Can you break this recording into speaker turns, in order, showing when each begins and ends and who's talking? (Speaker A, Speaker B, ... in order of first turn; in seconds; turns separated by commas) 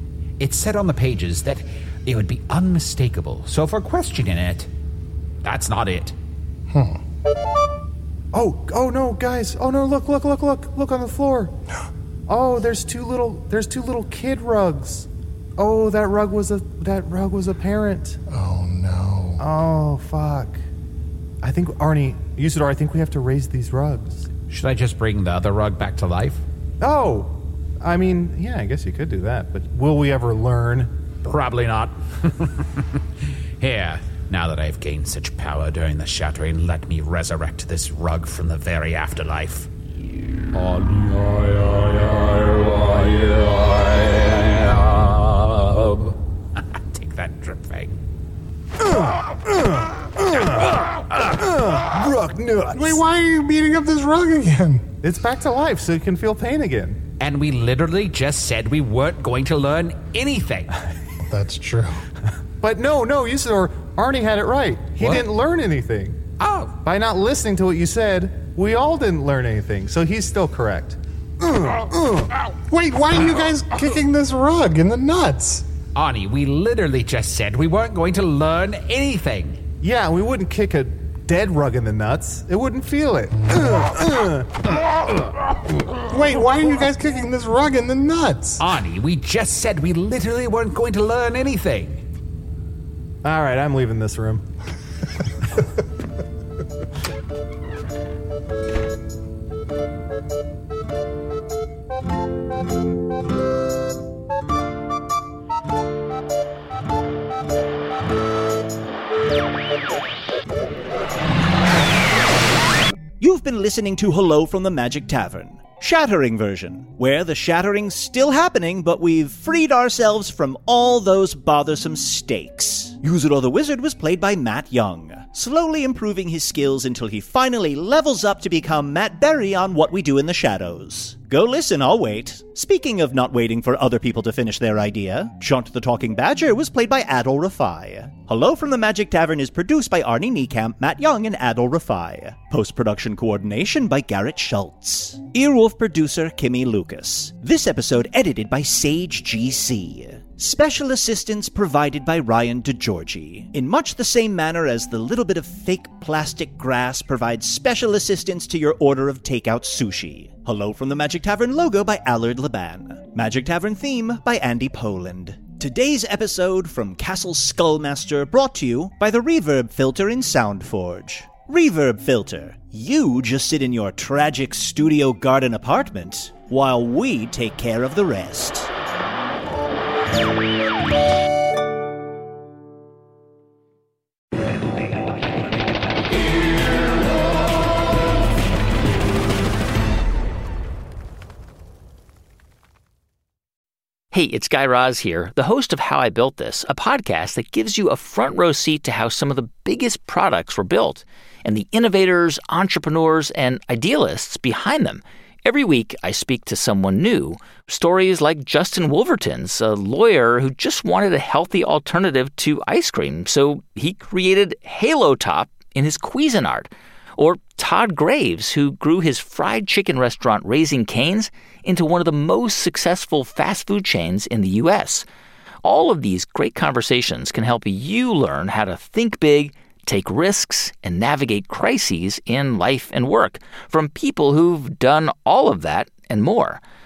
Speaker A: 0.4-4.7, Speaker A: 5.4-6.2, Speaker B: 6.7-7.0, Speaker C: 8.3-11.6, Speaker C: 12.3-18.2, Speaker B: 18.3-19.4, Speaker C: 19.4-20.6, Speaker C: 21.4-24.3, Speaker A: 24.5-26.4, Speaker C: 26.8-30.9, Speaker A: 31.2-33.0, Speaker A: 33.6-39.7, Speaker A: 40.5-48.0, Speaker C: 48.8-53.0, Speaker B: 52.7-54.9, Speaker C: 55.0-57.0, Speaker A: 57.2-60.8, Speaker B: 61.2-62.0, Speaker C: 62.6-66.2, Speaker A: 65.0-65.3, Speaker A: 66.4-66.8, Speaker C: 66.8-72.4, Speaker B: 72.7-75.7, Speaker A: 76.0-79.6, Speaker C: 79.8-84.6, Speaker B: 83.4-83.8, Speaker B: 86.1-88.6, Speaker A: 88.6-92.0, Speaker C: 93.2-94.4, Speaker D: 113.2-178.7, Speaker E: 194.1-225.1, Speaker E: 225.6-236.6